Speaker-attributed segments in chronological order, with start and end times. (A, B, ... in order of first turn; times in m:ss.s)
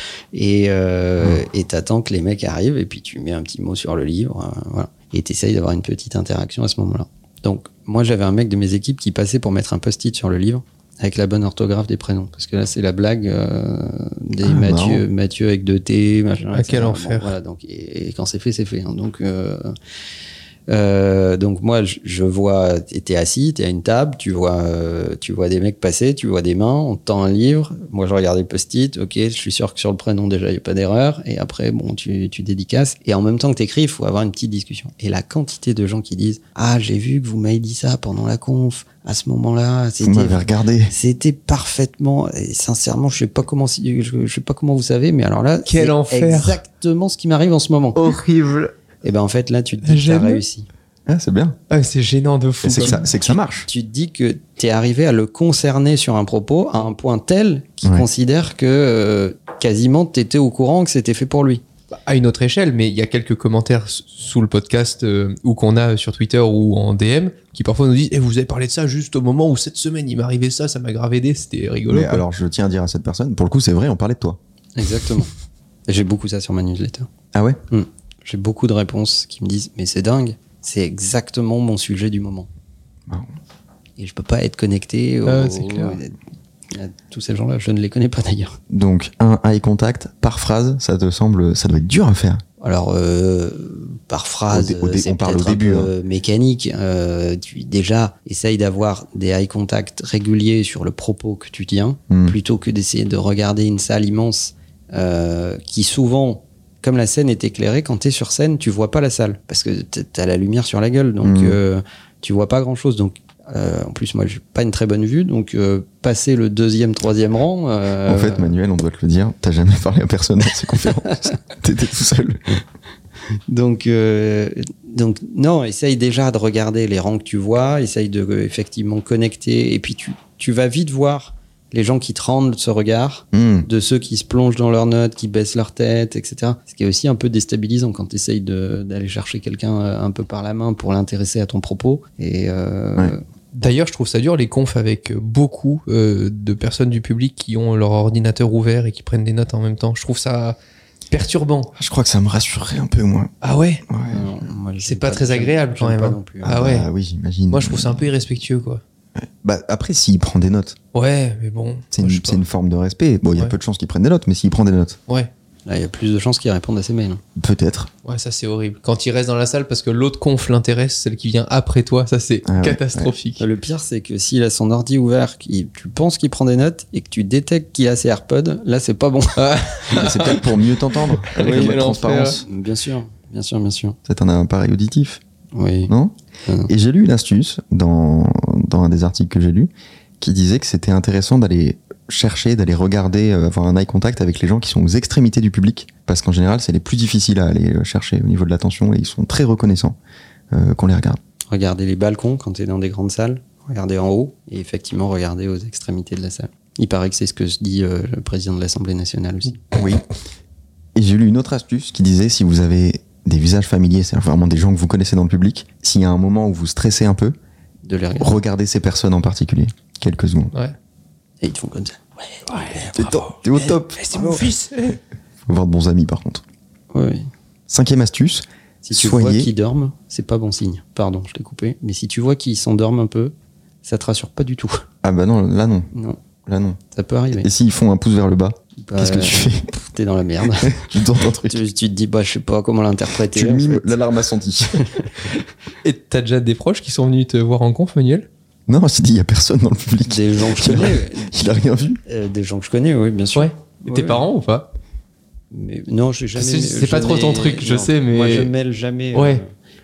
0:00.3-0:19.7 A
0:14.4-0:15.0 B
0:16.5-0:17.3 C
0:20.7-0:48.1 A
0:40.0-0:40.9 B
0:45.6-0:46.6 C
0:48.0-0:48.7 C
0:49.0-0:50.7 A
0:49.8-0:50.4 C
0:51.1-0:51.6 B
0:51.7-0:53.1 C
0:52.6-0:53.7 B
0:53.6-1:01.6 A
1:02.0-1:12.2 C
1:11.9-1:14.4 B
1:14.8-1:15.3 A
1:15.9-1:17.1 A
1:17.3-1:17.6 B
1:17.7-1:22.5 A
1:24.0-1:26.2 A
1:25.2-1:26.0 C
1:26.7-1:28.6 A
1:28.7-1:32.4 B
1:32.6-1:58.5 A
1:34.5-1:35.9 B
1:42.1-1:42.4 B
1:51.2-1:51.6 B
1:58.0-2:02.4 B
2:03.5-2:23.2 A
2:13.3-2:13.7 B
2:23.5-2:30.6 C
2:31.1-2:31.7 C
2:31.8-2:33.3 B
2:33.4-2:33.8 C
2:33.9-2:34.2 B
2:34.1-2:36.6 A
2:34.8-2:36.9 C
2:36.4-2:38.1 B
2:37.5-2:38.8 C
2:39.2-2:40.8 B
2:40.9-2:42.4 C
2:41.9-2:45.0 B
2:45.7-2:47.2 A
2:47.4-2:47.9 B
2:48.0-2:53.4 C
2:52.4-2:53.1 B
2:53.4-2:59.7 A
2:59.4-3:00.6 C
2:59.9-3:02.4 B
3:01.2-3:02.4 C
3:02.4-3:04.0 A
3:04.0-3:05.2 B
3:05.5-3:05.9 A
3:05.9-3:06.1 B
3:06.4-3:06.7 A
3:06.7-3:20.0 B
3:20.5-3:21.2 B
3:21.5-3:29.6 A
3:29.7-3:30.0 B
3:30.9-3:37.4 B
3:37.8-3:38.4 A
3:38.2-3:40.5 B
3:41.4-3:42.9 A
3:42.5-3:45.0 C
3:42.9-3:44.0 B
3:44.0-3:44.5 A
3:45.4-3:46.4 B
3:46.9-3:47.3 A
3:47.7-3:49.5 B
3:48.8-3:54.8 A
3:55.0-3:55.9 B
3:55.9-3:56.2 A
3:56.4-3:56.8 B
3:56.9-3:57.5 A
3:57.3-3:59.7 B
3:58.8-4:03.9 A
4:00.6-4:01.6 B
4:03.3-4:04.9 B
4:05.8-4:08.3 C
4:08.7-4:12.0 B
4:10.0-4:11.3 A
4:12.0-4:14.2 A
4:13.3-4:14.7 C
4:15.5-4:19.5 A
4:16.4-4:18.5 C
4:19.1-4:19.4 C